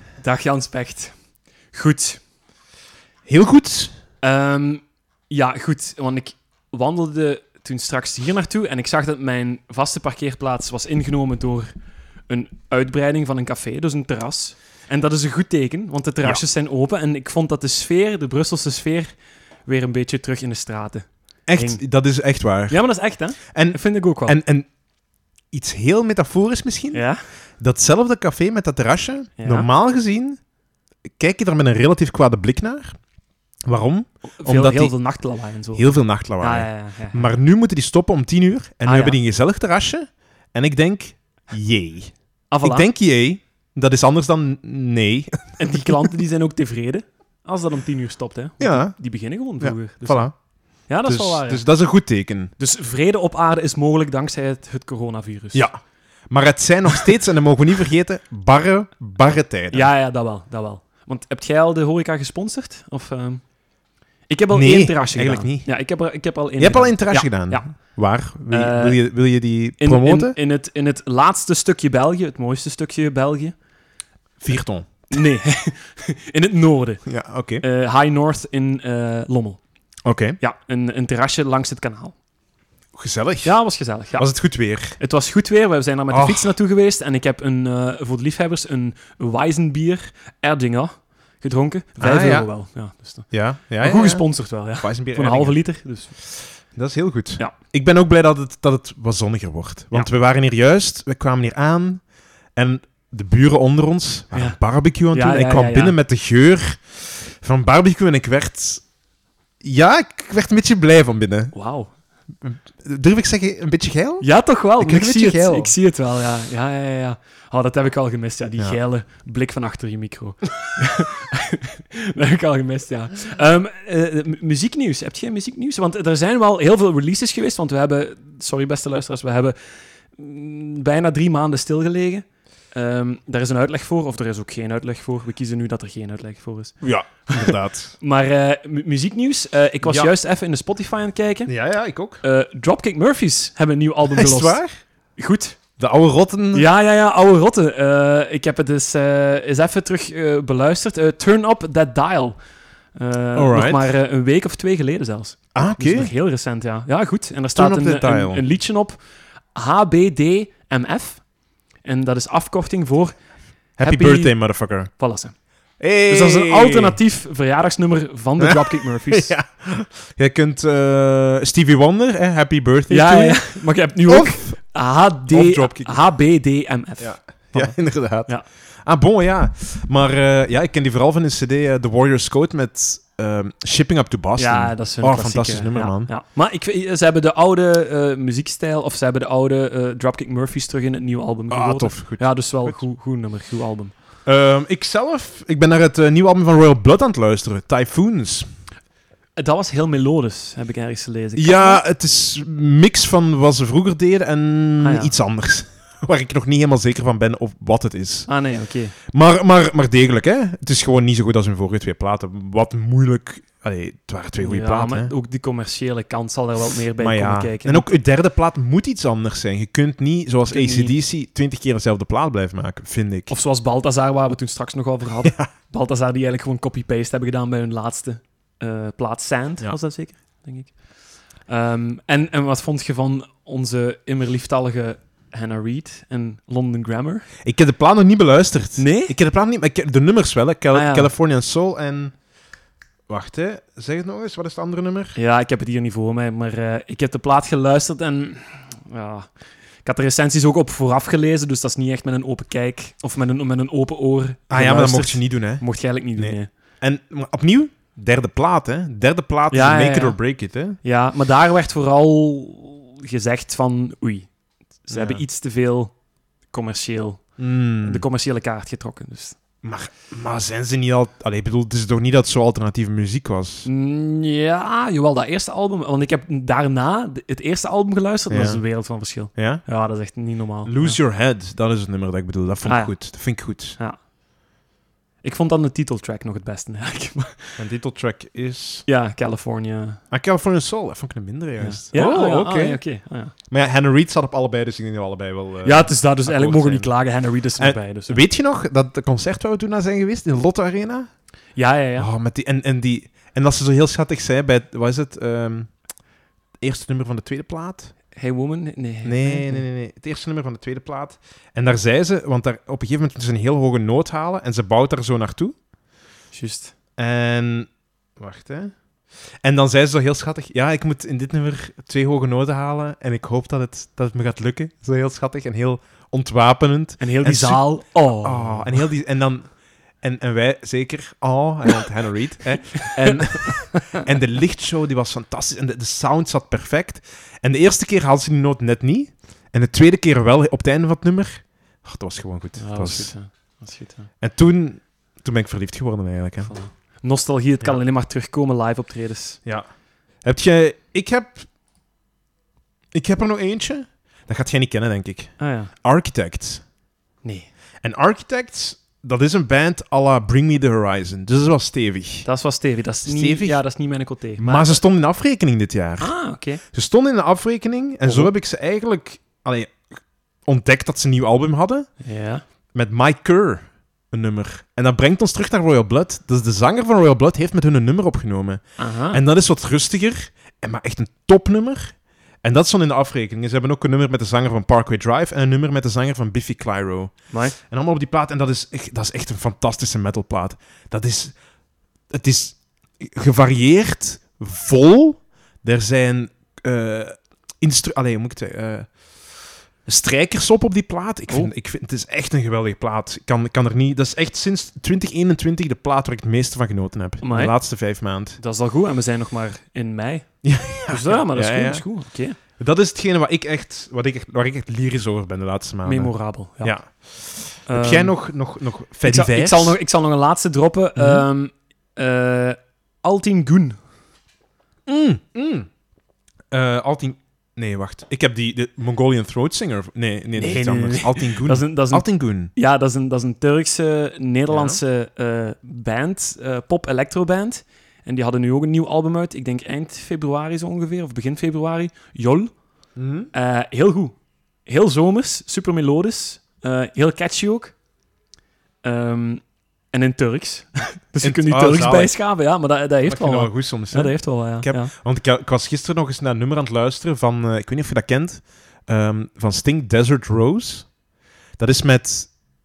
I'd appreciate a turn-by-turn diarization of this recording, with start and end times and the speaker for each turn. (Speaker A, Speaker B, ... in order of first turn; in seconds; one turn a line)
Speaker A: 0.2-1.1
Speaker A: 1.7-2.2
Speaker B: 3.3-3.9
Speaker A: 4.2-11.7
Speaker A: 12.3-19.1
Speaker A: 19.7-21.8
Speaker B: 21.5-22.8
Speaker A: 22.7-24.4
Speaker B: 23.5-24.7
Speaker B: 25.5-27.0
Speaker A: 26.9-27.2
Speaker B: 27.6-30.4
Speaker A: 29.4-29.7
Speaker B: 31.2-33.0
Speaker B: 33.7-34.9
Speaker A: 34.4-37.3
Speaker B: 35.8-46.1
Speaker A: 38.9-39.2
Speaker A: 42.5-42.9
Speaker A: 45.6-50.3
Speaker B: 48.6-48.9
Speaker B: 49.6-50.4
Speaker A: 50.9-51.6
Speaker B: 51.1-52.5
Speaker A: 52.6-55.7
Speaker B: 55.5-59.9
Speaker A: 59.7-63.4
Speaker A: 64.3-67.7
Speaker B: 64.5-65.7
Speaker B: 66.6-70.3
Speaker A: 68.5-69.0
Speaker A: 69.8-73.5
Speaker B: 74.4-75.1
Speaker A: 75.1-77.0
Speaker B: 77.1-77.6
Speaker A: 77.6-79.6
Speaker B: 80.0-80.4
Speaker A: 80.4-82.2
Speaker B: 82.9-83.5
Speaker A: 83.4-84.3
Speaker B: 84.2-85.0
Speaker A: 85.0-96.1
Speaker B: 86.1-86.5
Speaker B: 92.0-92.5
Speaker B: 93.3-94.3
Speaker B: 94.8-95.6
Speaker B: 96.4-102.0
Speaker B: 102.6-108.8
Speaker A: 105.1-106.0
Speaker B: 109.6-111.5
Speaker A: 111.5-111.9
Speaker B: 112.4-114.3
Speaker A: 114.2-129.6
Speaker B: 114.8-115.7
Speaker A: 130.1-141.5
Speaker B: 136.8-138.0
Speaker B: 139.8-140.1
Speaker B: 141.5-142.2
Speaker A: 142.2-144.6
Speaker B: 144.1-144.7
Speaker A: 145.2-145.6
Speaker B: 145.8-146.7
Speaker A: 146.5-152.4
Speaker A: 153.0-159.0
Speaker B: 153.3-153.9
Speaker B: 155.6-156.1
Speaker B: 157.6-158.4
Speaker A: 159.6-161.2
Speaker A: 161.8-163.2
Speaker B: 163.8-164.9
Speaker A: 163.8-164.3
Speaker A: 165.0-165.3
Speaker B: 165.8-167.0
Speaker A: 166.1-169.3
Speaker B: 168.4-174.6
Speaker A: 172.9-178.4
Speaker B: 175.3-176.0
Speaker B: 177.0-178.3
Speaker B: 178.8-186.1
Speaker A: 184.4-193.9
Speaker B: 191.5-192.8
Speaker B: 194.3-198.5
Speaker A: 199.4-201.8
Speaker B: 201.4-208.3
Speaker A: 204.8-205.1
Speaker A: 208.3-208.9
Speaker B: 209.1-215.1
Speaker A: 214.4-217.9
Speaker B: 217.0-223.3
Speaker A: 220.5-220.9
Speaker A: 223.3-230.8
Speaker B: 225.2-225.5
Speaker A: 231.5-237.3
Speaker B: 237.4-242.1
Speaker A: 238.8-239.2
Speaker A: 240.7-241.1
Speaker B: 243.1-245.2
Speaker A: 245.2-249.3
Speaker A: 249.8-256.5
Speaker B: 254.5-255.6
Speaker B: 256.2-260.8
Speaker A: 259.5-260.2
Speaker A: 260.8-264.3
Speaker A: 264.9-265.9
Speaker B: 264.9-265.2
Speaker A: 266.5-267.2
Speaker B: 267.4-268.0
Speaker A: 267.8-269.4
Speaker B: 269.6-273.7
Speaker A: 273.6-281.0
Speaker B: 278.3-278.6
Speaker B: 279.4-279.6
Speaker B: 280.6-283.8
Speaker A: 282.6-283.0
Speaker A: 285.2-287.6
Speaker B: 287.6-288.9
Speaker A: 288.9-290.0
Speaker B: 290.1-292.8
Speaker A: 291.6-293.3
Speaker B: 293.5-296.9
Speaker A: 295.6-298.2
Speaker B: 297.6-301.1
Speaker A: 301.6-302.1
Speaker B: 302.0-305.7
Speaker B: 306.6-307.9
Speaker A: 308.1-309.6
Speaker B: 309.1-315.6
Speaker A: 316.3-316.7
Speaker B: 317.0-318.7
Speaker B: 319.4-327.6
Speaker A: 327.0-328.8
Speaker B: 328.2-329.5
Speaker B: 330.0-343.1
Speaker A: 332.8-334.0
Speaker A: 342.6-344.1
Speaker B: 344.2-346.5
Speaker A: 346.4-349.4
Speaker B: 350.2-351.5
Speaker B: 352.9-355.3
Speaker A: 355.4-355.7
Speaker B: 355.8-356.6
Speaker A: 357.2-357.5
Speaker B: 357.8-362.3
Speaker A: 362.2-364.8
Speaker B: 363.1-363.6
Speaker B: 364.4-366.1
Speaker A: 366.0-366.6
Speaker B: 366.7-369.8
Speaker A: 368.0-368.3
Speaker B: 370.5-371.9
Speaker A: 372.0-372.4
Speaker B: 372.7-391.4
Speaker A: 378.8-379.2
Speaker B: 392.1-398.9
Speaker B: 399.9-408.4
Speaker A: 407.2-407.5
Speaker A: 408.4-412.4
Speaker B: 410.4-411.8
Speaker B: 412.6-419.8
Speaker A: 415.9-416.8
Speaker A: 417.7-418.2
Speaker A: 419.0-423.8
Speaker B: 421.0-421.3
Speaker B: 424.9-425.7
Speaker B: 426.5-432.5
Speaker A: 430.4-442.5
Speaker B: 434.5-434.8
Speaker B: 443.0-443.3
Speaker A: 443.3-444.1
Speaker A: 444.7-447.7
Speaker A: 448.8-454.9
Speaker B: 451.2-452.1
Speaker B: 453.1-460.9
Speaker B: 461.6-462.3